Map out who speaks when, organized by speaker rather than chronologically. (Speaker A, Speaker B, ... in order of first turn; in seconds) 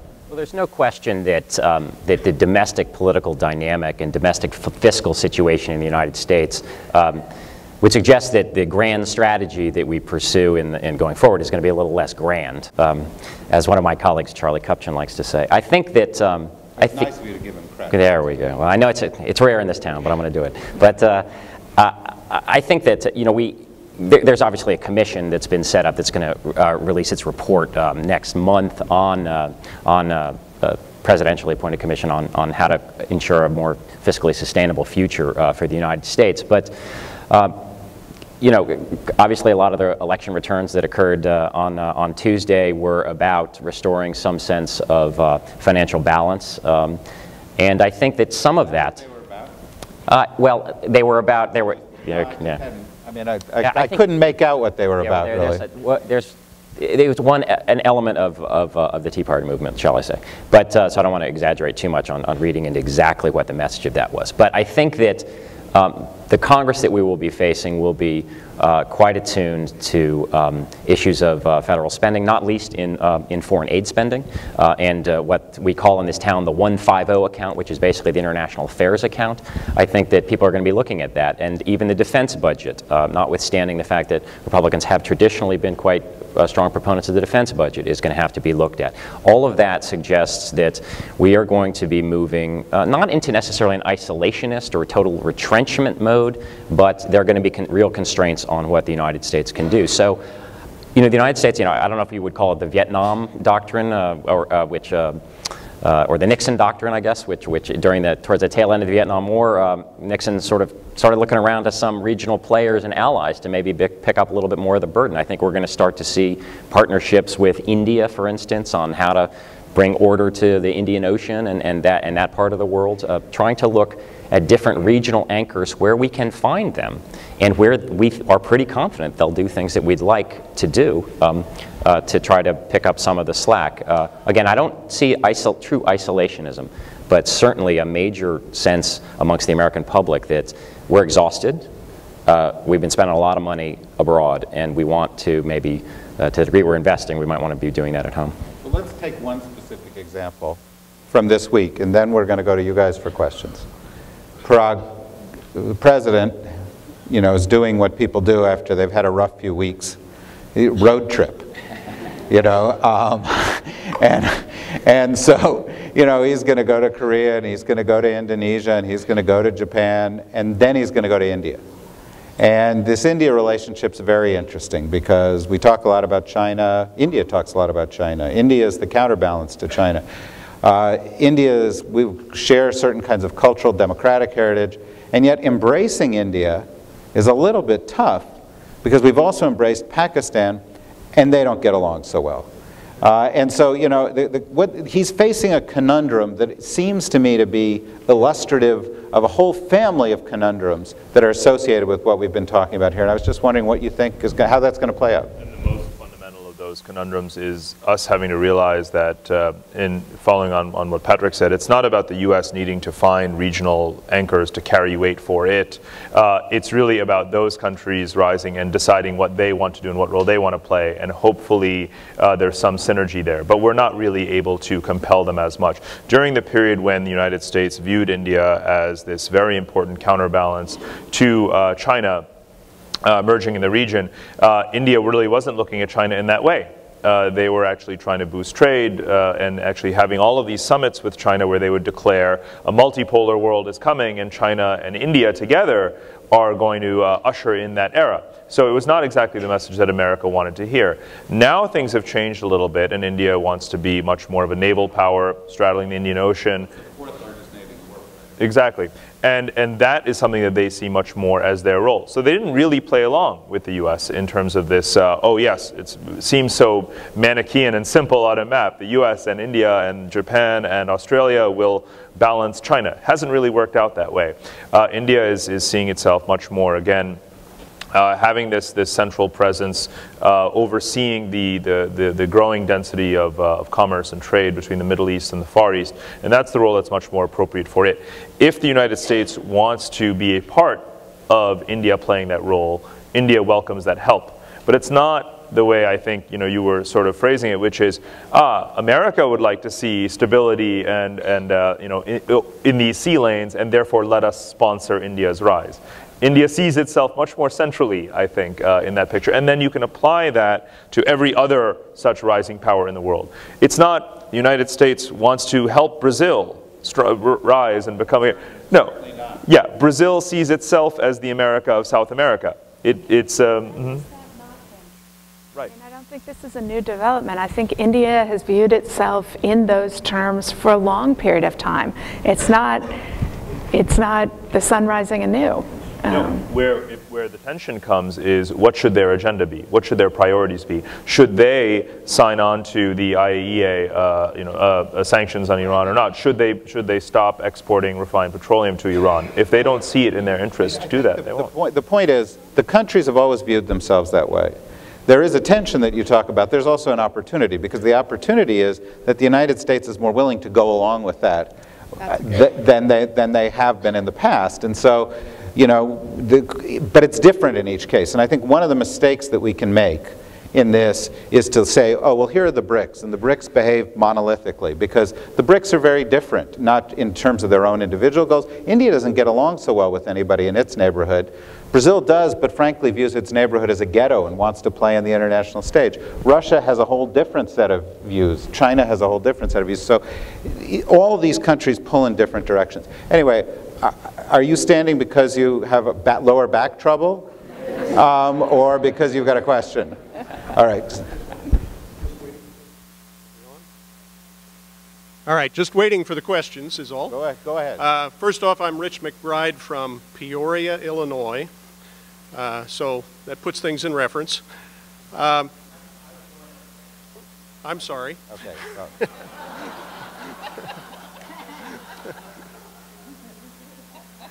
Speaker A: 0.3-7.2, 7.8-17.1, 17.9-36.7, 37.3-37.6, 38.4-47.0, 47.6-49.0, 50.1-52.6, 53.6-54.0, 55.0-100.2, 101.0-105.2, 105.8-141.7, 142.3-148.3
Speaker B: 16.8-18.2, 48.7-49.5, 51.5-55.6, 148.6-150.6, 151.1-153.7, 154.4-156.5, 157.1-160.0, 160.6-161.5, 162.3-171.6, 172.4-180.1, 180.6-188.3, 188.8-190.6, 191.1-192.5, 193.0-205.3, 257.0-258.1, 318.7-319.3, 350.6-354.6, 355.1-397.3, 397.9-400.0, 400.5-401.1, 407.1-407.8, 418.3-419.0
Speaker C: 205.4-232.3, 233.0-256.7, 258.4-277.2, 277.9-324.1, 336.1-351.5
Speaker D: 325.7-332.9, 333.7-336.4
Speaker E: 405.3-407.1, 407.8-411.5, 412.3-414.4, 415.1-415.5, 417.6-418.2